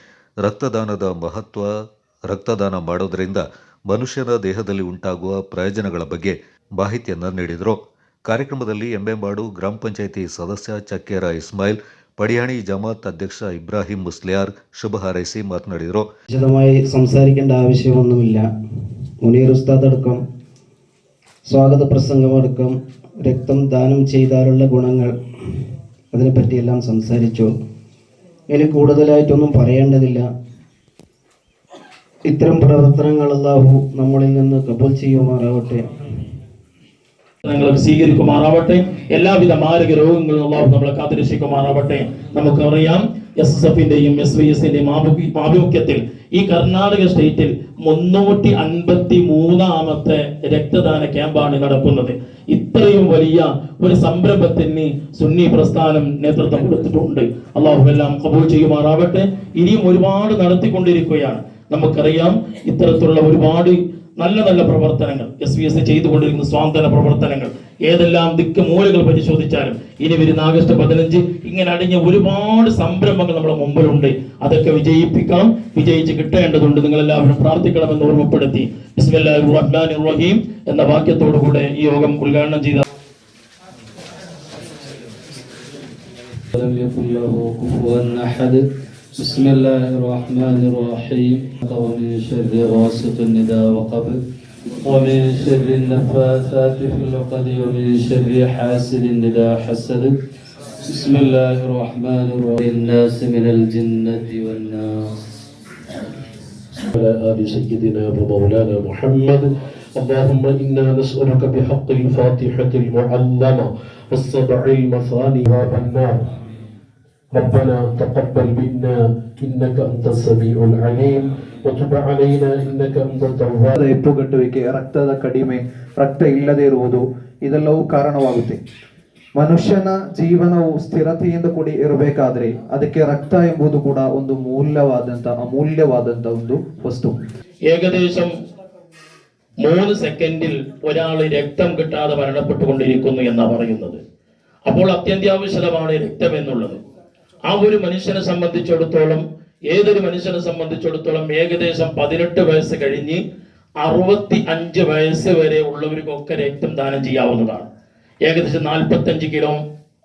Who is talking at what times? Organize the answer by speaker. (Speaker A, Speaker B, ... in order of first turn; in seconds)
Speaker A: 0.4-1.7, 2.3-16.1
Speaker B: 16.3-18.5, 19.2-20.2, 21.4-25.1, 26.1-27.5, 28.5-30.3, 32.3-35.9
Speaker C: 37.4-82.8, 137.7-138.3, 139.6-144.0, 144.7-146.8, 147.4-153.2, 153.8-157.7, 158.2-159.6
Speaker D: 86.5-88.6, 89.2-94.2, 94.9-100.1, 100.9-105.1
Speaker E: 106.9-116.3, 117.3-123.7
Speaker F: 123.8-128.6, 129.3-137.1